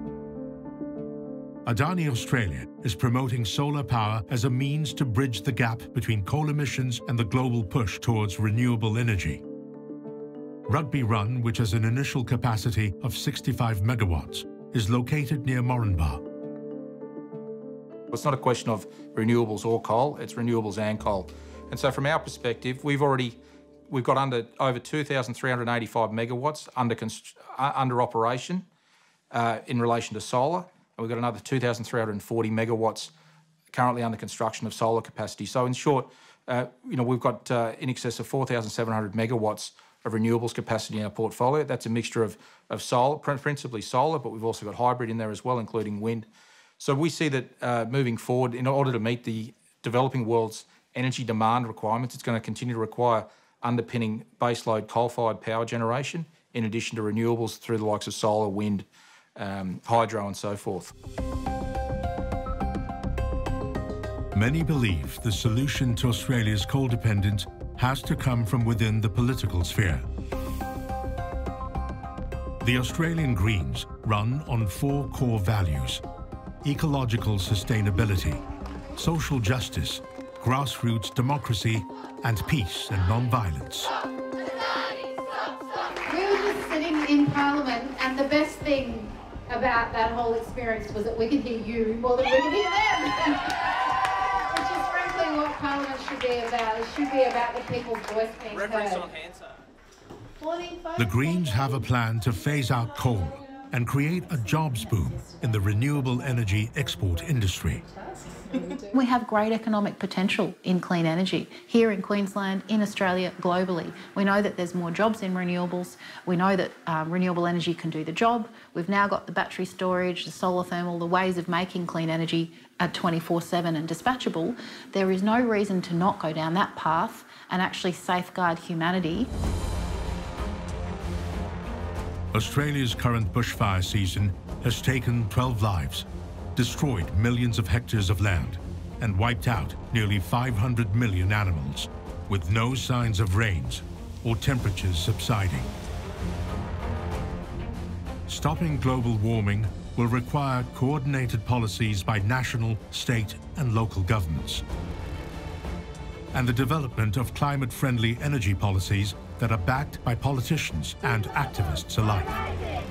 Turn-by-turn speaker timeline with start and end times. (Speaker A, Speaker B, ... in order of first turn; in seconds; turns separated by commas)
Speaker A: 1.6-9.4, Speaker A: 10.7-16.2, Speaker B: 18.1-23.4, Speaker B: 23.9-28.6, Speaker B: 29.3-33.1, Speaker B: 33.7-46.3, Speaker B: 46.8-60.9, Speaker A: 64.3-70.0, Speaker A: 72.6-76.0, Speaker A: 76.6-78.4, Speaker A: 79.0-83.9, Speaker C: 86.1-93.8, Speaker C: 94.5-99.1, Speaker C: 100.4-101.7, Speaker A: 101.0-107.8, Speaker D: 108.9-129.3, Speaker A: 132.3-145.7, Speaker A: 148.3-154.6, Speaker A: 156.3-162.3